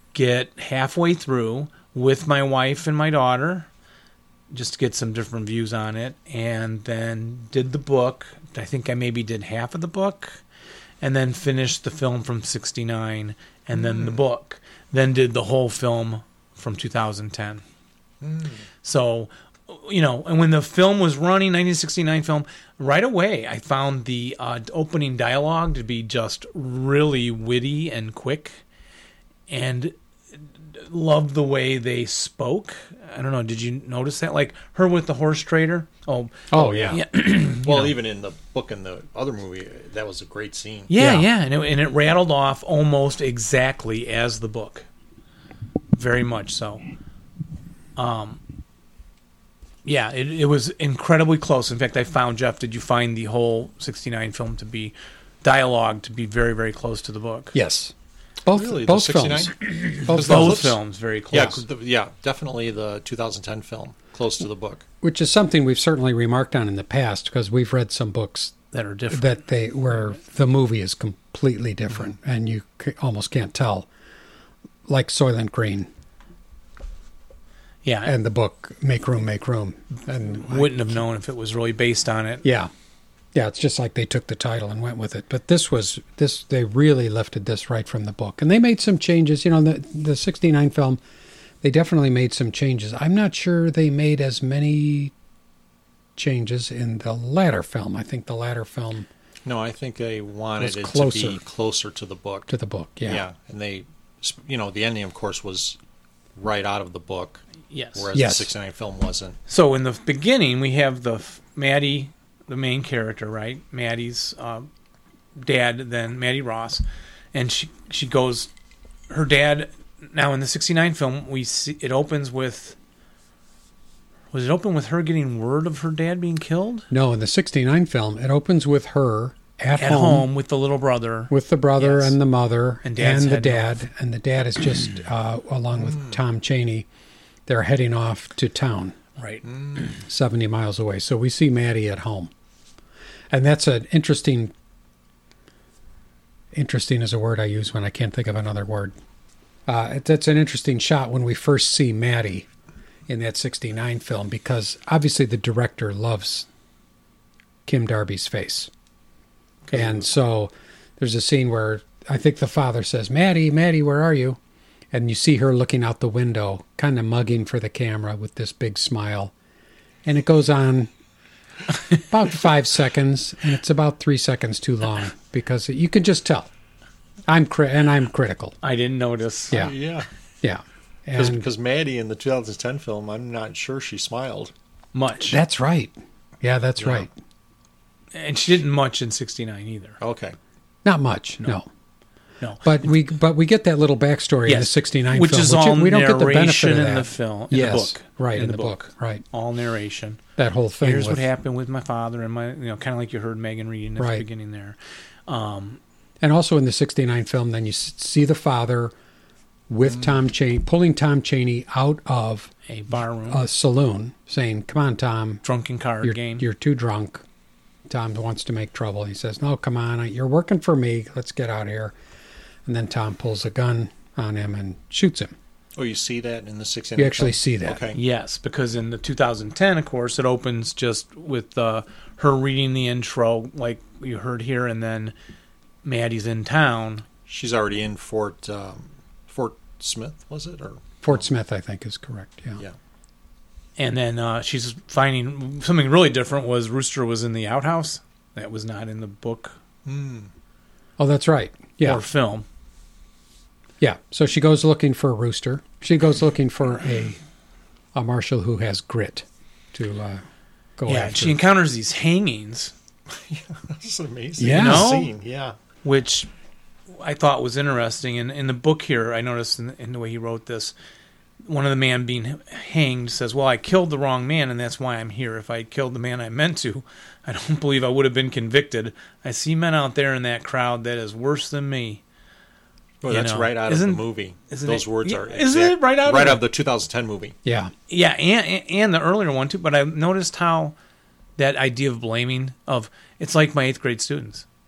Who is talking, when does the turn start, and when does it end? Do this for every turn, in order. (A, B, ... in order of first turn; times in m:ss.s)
0:00.1-0:03.7 A
0:04.5-0:10.4 A
0:11.0-0:17.6 A
0:13.7-0:14.2 B
0:18.2-0:18.6 B
0:18.8-0:28.6 A
0:29.5-0:30.0 A
0:30.7-0:37.9 A
0:36.5-0:37.0 C
0:36.6-0:37.0 B
0:37.5-0:40.9 B
0:40.9-0:44.9 A
0:41.0-0:41.2 C
0:45.9-0:46.8 A
0:48.0-0:48.4 A
0:49.8-0:57.5 A
0:57.5-0:57.9 C
0:58.4-0:59.5 C
0:58.5-1:00.8 B
0:59.8-1:01.6 A
1:00.1-1:00.7 C
1:01.3-1:04.8 B
1:05.0-1:08.5 C
1:08.7-1:09.4 A
1:09.1-1:13.9 C
1:14.9-1:15.9 C
1:17.8-1:18.1 A
1:18.0-1:21.0 C
1:20.3-1:22.4 A
1:22.4-1:22.7 C
1:23.3-1:31.0 C
1:31.6-1:35.1 C
1:36.2-1:39.1 C
1:39.5-1:42.5 B
1:40.6-1:41.4 C
1:42.5-1:43.2 C
1:43.1-1:45.8 B
1:46.4-1:47.4 B
1:47.7-1:48.1 A
1:48.0-1:49.4 B
1:48.1-1:48.5 C
1:49.5-1:54.7 A
1:55.4-1:56.8 A
1:57.3-1:58.5 A
1:59.1-2:02.8 A
2:04.3-2:06.9 A
2:06.9-2:10.2 C
2:09.8-2:12.2 A
2:11.3-2:16.9 C
2:12.8-2:13.8 A
2:15.8-2:16.2 B
2:17.5-2:19.0 C
2:19.2-2:19.4 A
2:19.4-2:19.9 B
2:20.0-2:22.3 C
2:23.3-2:24.5 C
2:26.5-2:29.0 C
2:29.7-2:32.5 C
2:33.1-2:36.5 C
2:37.6-2:38.7 C
2:39.7-2:40.0 A
2:39.7-2:44.4 C
2:44.9-2:49.3 C
2:50.0-2:50.9 C
2:52.1-2:56.5 C
2:57.3-2:58.6 C
2:58.6-2:59.6 A
2:59.5-3:00.1 B
3:00.4-3:01.5 C
3:01.1-3:04.5 B
3:04.9-3:05.4 A
3:05.2-3:07.1 C
3:06.8-3:07.1 B
3:08.1-3:10.0 A
3:10.0-3:10.4 B
3:10.8-3:11.7 C
3:12.4-3:12.9 A
3:12.6-3:19.2 C
3:14.5-3:20.2 A
3:20.4-3:21.2 C
3:20.8-3:25.8 A
3:24.0-3:24.2 C
3:26.2-3:28.9 C
3:29.7-3:32.5 C
3:32.7-3:33.4 A
3:33.3-3:35.4 C
3:35.4-3:36.5 A
3:36.0-3:37.2 C
3:37.9-3:42.0 C
3:42.6-3:45.3 C
3:45.8-3:48.0 B
3:47.0-3:47.8 C
3:47.9-3:55.1 A
3:55.8-3:57.1 A
3:57.3-4:01.2 B
4:01.0-4:02.6 C
4:03.8-4:09.6 A
4:09.8-4:10.3 B
4:11.0-4:12.0 C
4:11.8-4:12.4 A
4:13.8-4:17.2 C
4:17.9-4:20.2 C
4:20.8-4:21.4 C
4:20.9-4:22.7 A
4:23.1-4:25.6 B
4:24.4-4:25.0 C
4:24.5-4:25.1 A
4:25.8-4:26.3 A
4:26.9-4:30.7 A
4:31.4-4:42.0 A
4:43.0-4:47.4 B
4:43.1-4:46.4 A
4:47.4-4:47.7 C
4:47.9-4:50.8 A
4:51.4-4:54.4 A